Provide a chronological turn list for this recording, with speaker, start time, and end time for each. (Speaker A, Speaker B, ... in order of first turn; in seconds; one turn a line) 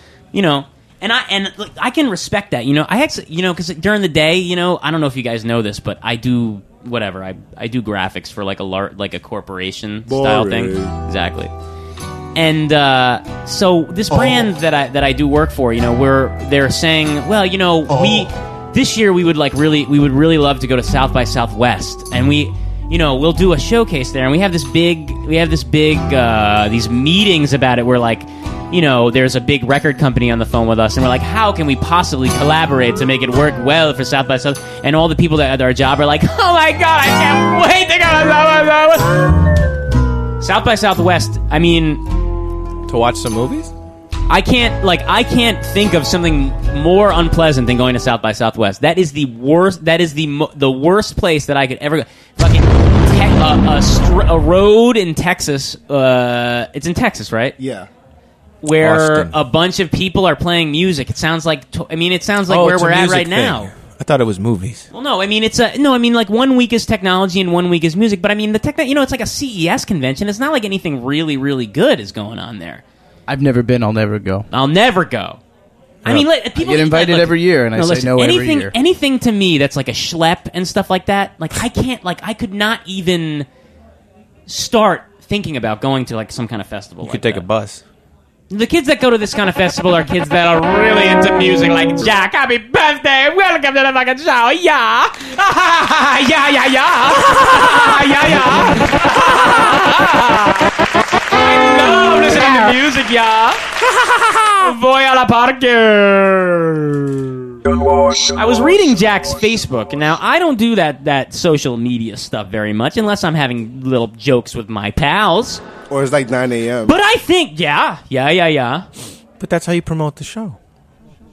Speaker A: 0.3-11.5
Speaker B: 10.1-10.9
Speaker A: 12.3-39.2
Speaker A: 40.4-42.0
Speaker C: 42.9-43.7
Speaker A: 44.3-57.6
Speaker B: 57.6-57.9
Speaker A: 58.6-63.7
Speaker C: 58.8-59.4
Speaker C: 62.5-64.8
Speaker A: 64.9-72.8
Speaker D: 73.3-74.5
Speaker A: 74.5-75.4
Speaker A: 76.0-83.5
Speaker D: 76.5-78.7
Speaker A: 84.5-87.5
Speaker C: 87.0-87.8
Speaker A: 88.5-100.7
Speaker A: 101.3-103.7
Speaker A: 104.4-107.1
Speaker A: 108.3-115.6
Speaker B: 115.9-117.0
Speaker A: 116.9-118.9
Speaker C: 119.4-120.6